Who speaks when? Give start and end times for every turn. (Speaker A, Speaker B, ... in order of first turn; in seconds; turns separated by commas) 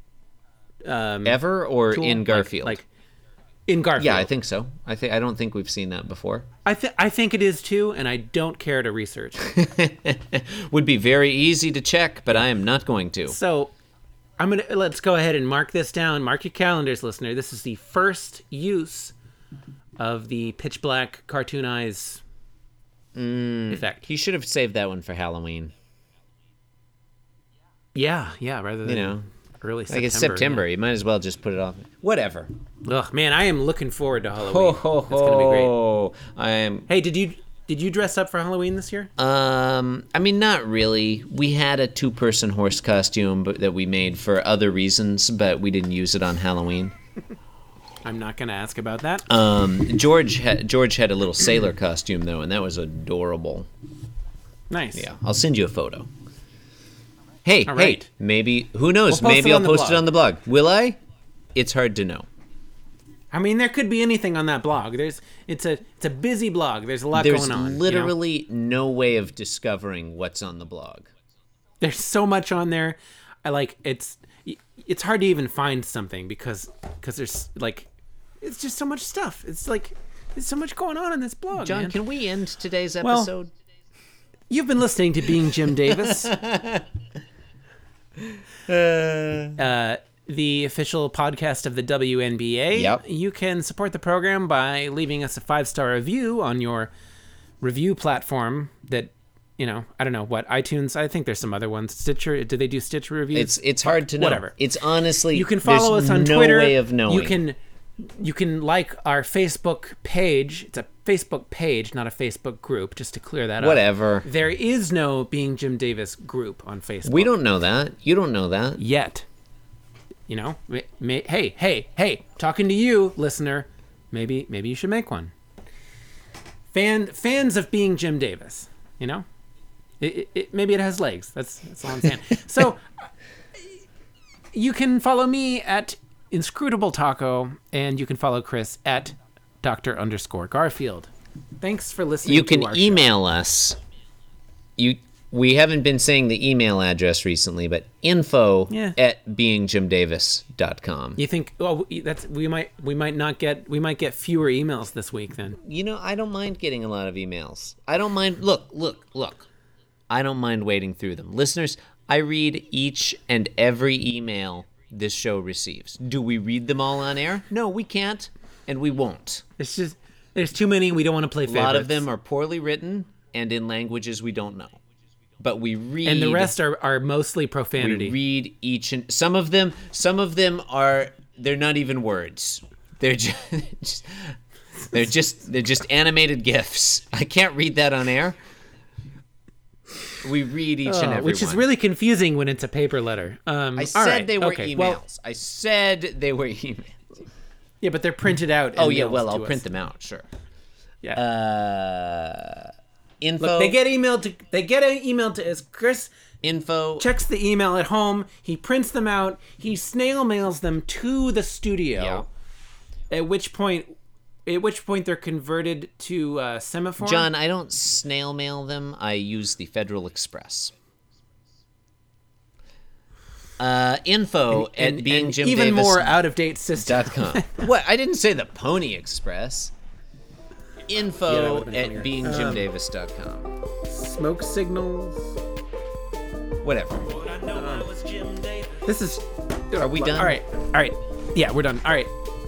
Speaker A: 0.8-1.4, Speaker B: 1.2-2.8, Speaker A: 1.9-2.9, Speaker A: 3.7-4.3, Speaker B: 4.0-6.5, Speaker A: 6.7-9.5, Speaker B: 9.5-13.4, Speaker A: 13.3-13.7, Speaker A: 14.4-19.1, Speaker A: 20.0-22.2, Speaker B: 23.2-25.7, Speaker A: 23.7-24.0, Speaker A: 27.9-30.6, Speaker B: 28.9-29.2, Speaker B: 29.9-32.5, Speaker A: 32.8-35.7, Speaker B: 34.4-36.9, Speaker A: 36.9-39.1, Speaker B: 39.2-46.9, Speaker A: 48.0-49.3, Speaker B: 49.3-53.7, Speaker A: 54.7-55.1, Speaker B: 55.0-56.1, Speaker B: 57.5-61.0, Speaker A: 57.7-58.1, Speaker A: 59.1-60.1, Speaker B: 61.5-62.3, Speaker A: 63.3-68.2, Speaker B: 67.1-71.1, Speaker A: 71.8-77.9, Speaker A: 78.4-82.0, Speaker B: 81.5-83.5, Speaker A: 83.0-83.3, Speaker A: 84.5-86.4, Speaker B: 85.9-86.8, Speaker B: 88.7-89.6, Speaker A: 89.6-96.9, Speaker B: 92.7-93.0, Speaker A: 97.6-104.5, Speaker B: 103.3-107.4, Speaker A: 105.3-107.6, Speaker A: 108.2-117.3, Speaker B: 113.6-114.3, Speaker B: 117.0-118.8, Speaker A: 118.8-119.2, Speaker A: 120.3-125.3, Speaker A: 126.7-129.2, Speaker A: 130.0-132.8, Speaker A: 134.5-141.1, Speaker A: 141.6-143.1, Speaker B: 142.2-143.8, Speaker B: 144.8-151.2, Speaker A: 148.7-149.0, Speaker A: 151.2-155.6, Speaker B: 155.6-159.5, Speaker B: 160.1-169.4, Speaker A: 169.6-172.1, Speaker B: 171.4-174.8, Speaker B: 175.4-176.6, Speaker A: 176.1-178.2, Speaker B: 177.8-184.3, Speaker B: 184.9-188.4, Speaker B: 190.2-191.7, Speaker A: 190.8-195.0, Speaker B: 193.8-197.0, Speaker A: 197.8-199.6, Speaker B: 198.8-200.2, Speaker B: 201.2-203.8, Speaker A: 203.4-206.1, Speaker B: 206.4-207.1, Speaker A: 207.0-212.3, Speaker B: 211.9-212.3, Speaker A: 213.1-213.9, Speaker A: 214.5-217.3, Speaker B: 217.0-220.7, Speaker B: 223.6-226.2, Speaker A: 224.5-227.7, Speaker B: 226.8-229.7, Speaker B: 230.9-233.5, Speaker A: 231.2-232.7, Speaker A: 233.9-235.4, Speaker B: 236.6-237.1, Speaker A: 237.1-242.1, Speaker B: 239.8-240.4